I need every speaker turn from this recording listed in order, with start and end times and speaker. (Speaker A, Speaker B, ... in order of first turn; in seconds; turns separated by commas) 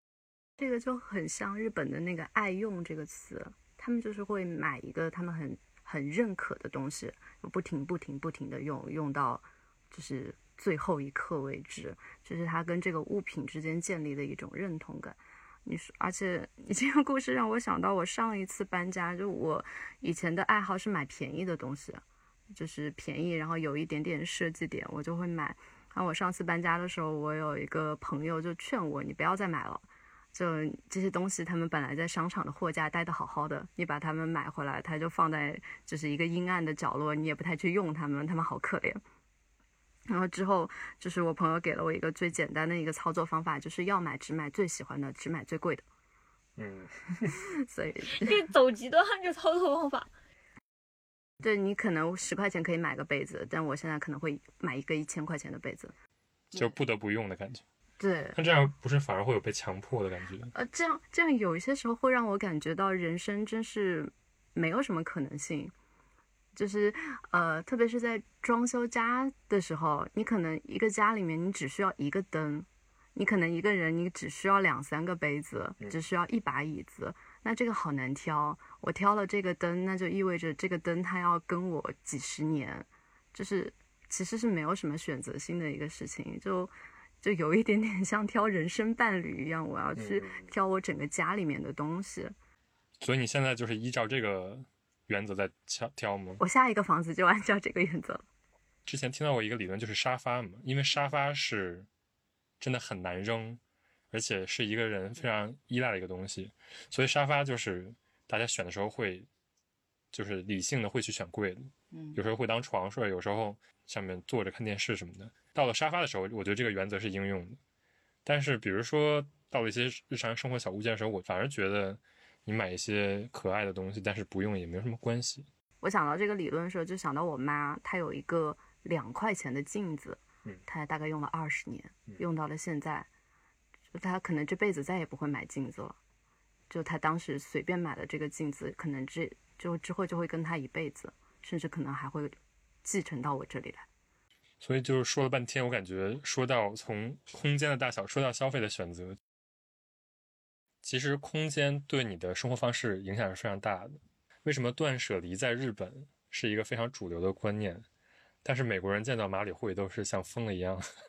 Speaker A: 0.6-39.0, Speaker A: 40.1-45.9, Speaker B: 46.6-47.4, Speaker A: 47.3-48.4, Speaker C: 48.0-50.1, Speaker A: 51.4-55.9, Speaker B: 56.5-57.6, Speaker A: 58.0-58.4, Speaker B: 58.4-60.5, Speaker A: 60.5-65.7, Speaker A: 66.5-92.3, Speaker B: 90.0-90.5, Speaker B: 93.0-96.4, Speaker A: 96.4-98.3, Speaker B: 98.9-101.9, Speaker B: 102.6-103.6, Speaker B: 104.1-109.3, Speaker B: 110.1-117.6, Speaker A: 111.9-112.2, Speaker B: 118.2-125.5, Speaker A: 125.8-133.1, Speaker A: 133.9-136.0, Speaker A: 136.7-143.9, Speaker B: 144.6-149.2, Speaker B: 150.8-157.9, Speaker B: 158.4-160.8